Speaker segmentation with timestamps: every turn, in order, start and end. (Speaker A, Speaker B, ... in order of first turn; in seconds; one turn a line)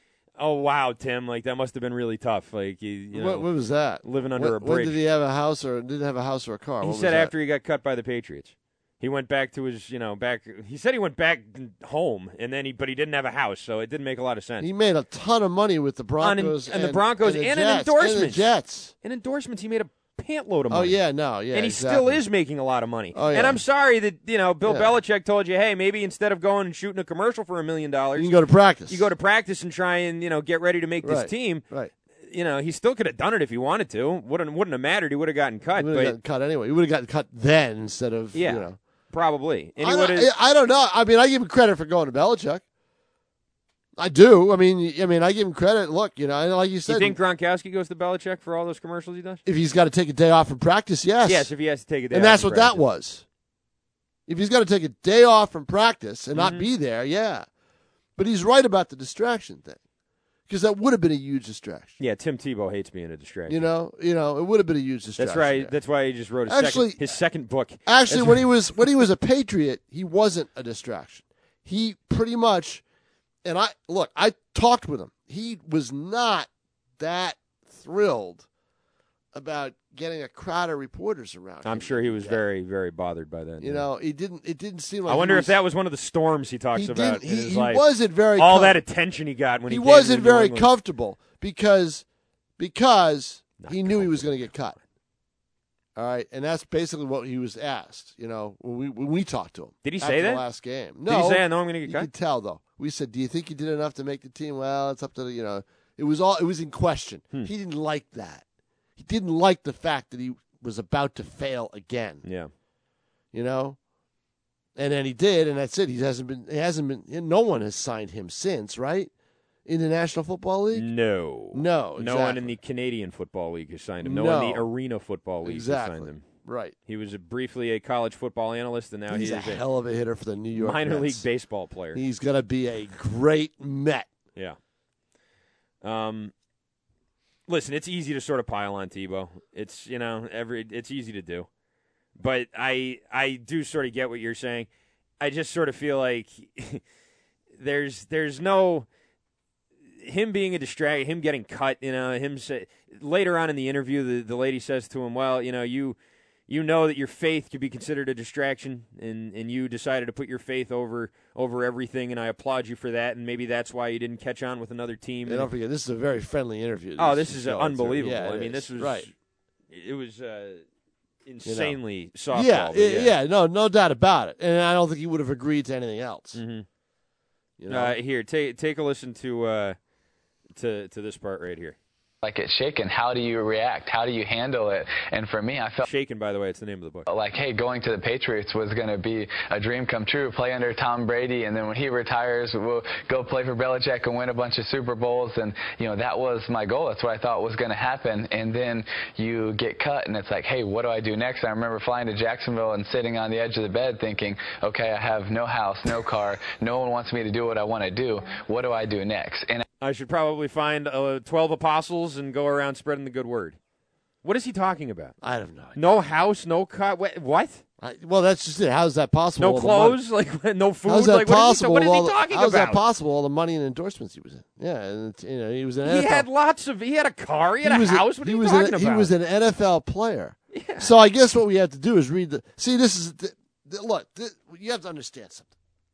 Speaker A: 0.4-3.5
Speaker B: 3.1-7.3
Speaker A: 4.0-5.0
Speaker A: 6.8-14.7
Speaker B: 14.6-18.9
Speaker A: 16.2-18.5
Speaker A: 19.0-21.0
Speaker B: 20.7-22.2
Speaker A: 21.5-28.3
Speaker B: 23.1-23.6
Speaker B: 24.6-24.9
Speaker B: 28.1-29.1
Speaker A: 28.9-31.6
Speaker B: 31.0-31.9
Speaker A: 32.3-36.1
Speaker B: 35.7-38.8
Speaker A: 38.3-40.3
Speaker B: 39.8-42.6
Speaker B: 44.0-47.1
Speaker A: 46.9-49.4
Speaker B: 49.5-51.5
Speaker A: 51.2-52.8
Speaker B: 52.1-53.2
Speaker B: 54.3-57.5
Speaker A: 56.3-56.7
Speaker B: 58.2-59.8
Speaker B: 60.5-62.0
Speaker A: 62.0-63.6
Speaker B: 63.5-65.7
Speaker A: 65.2-68.5
Speaker B: 66.5-67.0
Speaker B: 67.9-72.8
Speaker B: 73.4-78.5
Speaker B: 79.3-82.4
Speaker A: 81.6-83.8
Speaker B: 83.6-85.5
Speaker A: 85.1-90.7
Speaker B: 86.7-88.8
Speaker B: 89.7-92.0
Speaker B: 92.6-94.7
Speaker A: 93.6-94.5
Speaker B: 96.0-108.4
Speaker A: 99.8-100.4
Speaker A: 101.0-102.1
Speaker B: 109.0-112.2
Speaker A: 112.2-112.5
Speaker B: 113.3-113.8
Speaker B: 114.8-119.1
Speaker B: 119.7-120.9
Speaker A: 120.7-126.2
Speaker B: 121.5-122.5
Speaker B: 124.0-124.7
Speaker B: 125.4-126.7
Speaker A: 126.9-129.6
Speaker B: 129.1-131.2
Speaker A: 130.5-132.0
Speaker B: 131.9-134.1
Speaker A: 135.8-136.3
Speaker A: 137.5-141.5
Speaker A: 142.2-144.7
Speaker A: 145.2-146.8
Speaker A: 147.6-148.8
Speaker A: 150.0-156.0
Speaker A: 156.5-165.5
Speaker B: 165.2-169.1
Speaker A: 167.0-169.1
Speaker A: 169.7-170.6
Speaker A: 171.2-173.1
Speaker B: 171.4-171.8
Speaker B: 172.3-176.4
Speaker A: 176.3-176.7
Speaker B: 177.6-177.9
Speaker A: 177.7-179.8
Speaker A: 180.5-181.8
Speaker C: 182.2-185.9
Speaker A: 185.8-187.1
Speaker C: 187.1-209.6
Speaker A: 209.8-213.6
Speaker A: 214.2-215.1
Speaker B: 215.2-215.7
Speaker A: 215.7-217.6
Speaker B: 217.8-220.0
Speaker A: 219.4-222.8
Speaker B: 220.9-226.2
Speaker A: 225.8-229.1
Speaker B: 227.6-235.5
Speaker A: 230.5-230.9